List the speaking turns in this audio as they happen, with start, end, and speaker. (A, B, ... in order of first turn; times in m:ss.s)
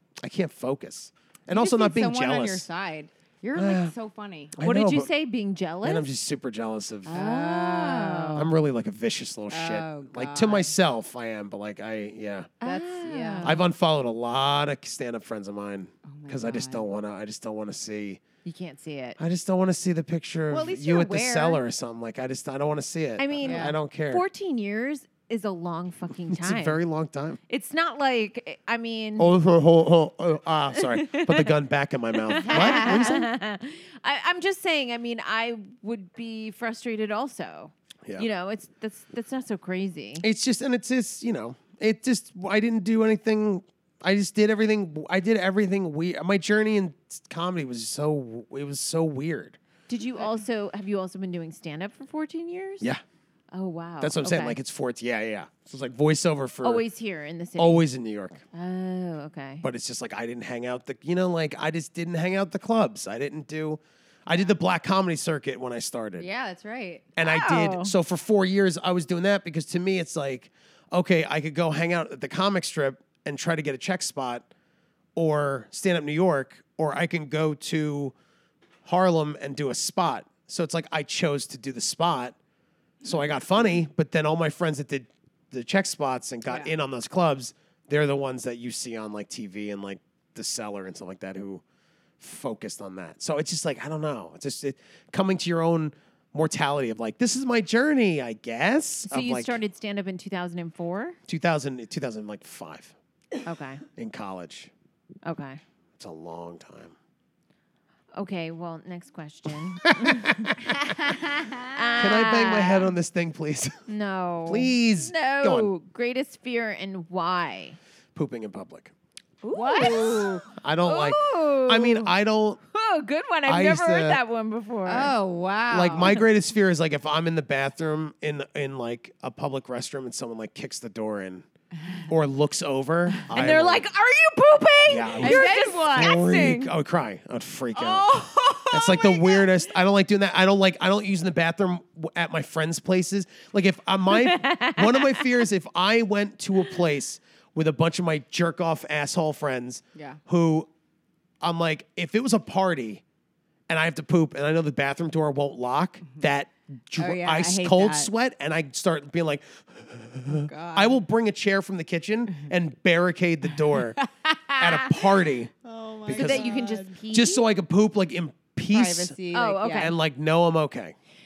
0:00.2-0:02.7 A
0:01.5-0:04.5 B
0:03.5-0:03.9 A
0:04.5-0:05.1 A
0:04.6-0:06.1 C
0:05.8-0:07.2 A
0:07.1-0:08.5 C
0:07.1-0:08.5 B
0:08.3-0:12.5 A
0:09.5-0:10.7 B
0:12.6-0:13.6 C
0:12.6-0:13.6 B
0:13.4-0:18.2 A
0:16.1-0:16.8 B
0:18.4-0:19.2 C
0:19.2-0:24.2 A
0:20.5-0:21.6 B
0:23.2-0:26.8 C
0:23.4-0:23.7 B
0:26.3-0:27.4 A
0:27.5-0:29.3 C
0:29.2-0:33.3 A
0:30.7-0:31.5 C
0:32.3-0:40.3 C
0:32.4-0:33.1 B
0:40.2-0:49.6 A
0:49.9-0:52.9 C
0:53.5-0:54.6 C
0:54.0-0:56.8 A
0:56.6-0:57.8 C
0:57.6-0:58.4 A
0:58.5-0:59.6 C
0:59.6-1:06.3 A
1:06.2-1:07.1 B
1:07.2-1:14.5 A
1:07.2-1:07.9 C
1:15.2-1:18.1 A
1:18.8-1:22.4 A
1:23.0-1:31.6 A
1:26.5-1:26.7 B
1:32.2-1:39.6 A
1:39.0-1:41.2 C
1:41.3-1:42.9 A
1:43.4-1:43.8 C
1:44.0-1:44.7 A
1:45.2-1:45.6 C
1:46.0-1:47.0 A
1:48.1-1:50.6 C
1:49.9-1:50.5 A
1:50.8-1:51.7 B
1:51.7-1:52.9 C
1:52.0-1:53.8 A
1:53.9-1:57.8 C
1:54.5-1:55.7 A
1:58.1-1:58.9 A
1:59.4-2:02.1 C
1:59.5-2:00.4 B
2:00.5-2:02.6 A
2:02.7-2:05.1 C
2:03.4-2:04.2 A
2:04.8-2:06.2 B
2:05.7-2:11.4 A
2:12.1-2:13.8 A
2:13.3-2:16.7 C
2:14.9-2:18.1 A
2:15.2-2:16.2 B
2:17.7-2:19.5 C
2:18.7-2:30.7 A
2:24.1-2:25.3 C
2:30.0-2:30.2 B
2:31.4-2:33.0 A
2:33.7-2:44.0 A
2:37.0-2:38.1 B
2:40.3-2:41.0 B
2:43.7-2:47.0 B
2:44.6-2:45.5 A
2:46.0-2:46.5 A
2:46.1-2:47.4 C
2:47.1-2:49.2 A
2:48.7-2:49.9 B
2:49.3-2:49.9 C
2:49.8-2:51.0 A